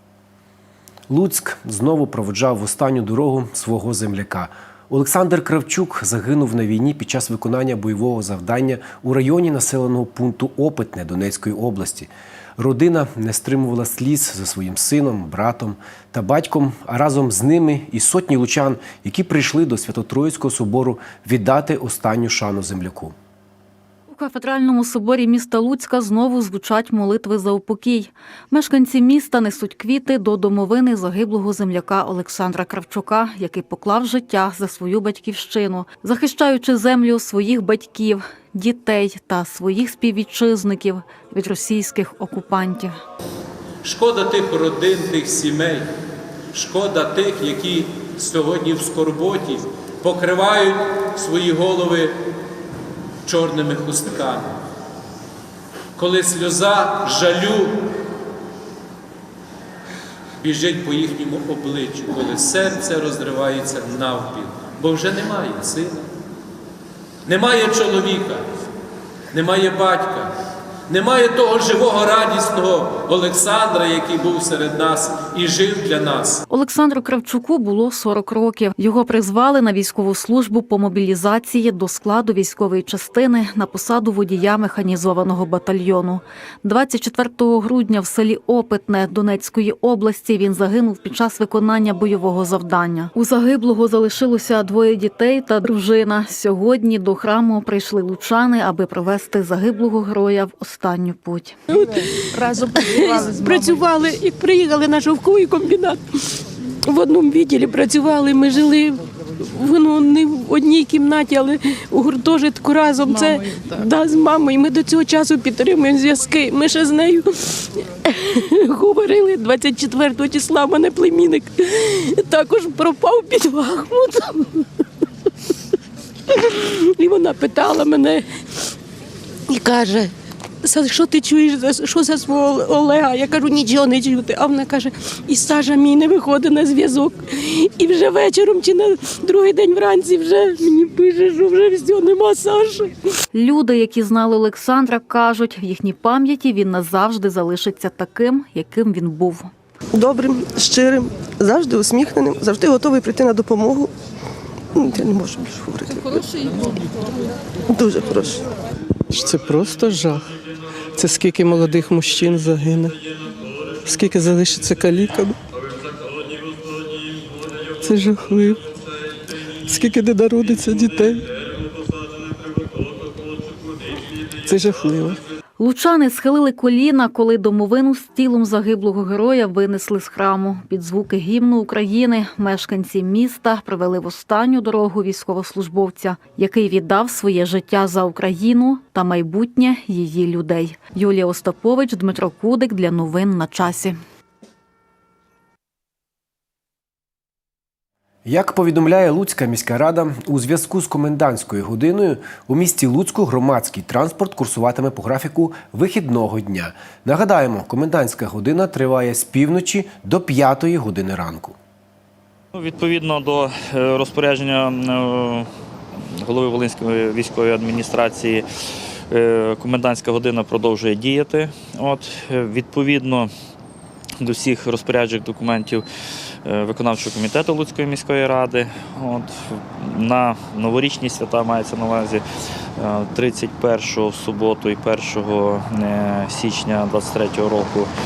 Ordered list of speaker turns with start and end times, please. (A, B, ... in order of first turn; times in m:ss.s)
0:01.1-0:23.1 A
0:24.1-0:43.0 B
0:43.8-0:45.9 C
0:46.5-0:52.2 C
0:53.2-0:54.6 C
0:56.0-0:57.8 C
1:00.4-1:06.0 C
1:07.2-1:08.4 C
1:09.3-1:10.3 C
1:10.9-1:16.4 C
1:16.5-1:41.6 B
1:41.7-2:04.6 D
2:06.3-2:08.2 D
2:09.5-2:23.0 D
2:23.3-2:29.5 B
2:29.9-2:33.9 E
2:34.8-2:36.3 E
2:37.7-2:38.4 E
2:39.1-2:40.2 F
2:41.0-2:43.0 F
2:43.8-2:45.4 F
2:47.8-2:48.6 F
2:49.6-2:51.3 F
2:54.4-2:55.2 F
2:55.6-3:14.0 B
3:18.2-3:31.5 A
3:32.5-3:35.5 G
3:36.2-3:38.4 G
3:39.1-3:43.3 G
3:44.2-3:45.8 G
3:46.4-3:52.2 G
3:52.8-3:57.9 G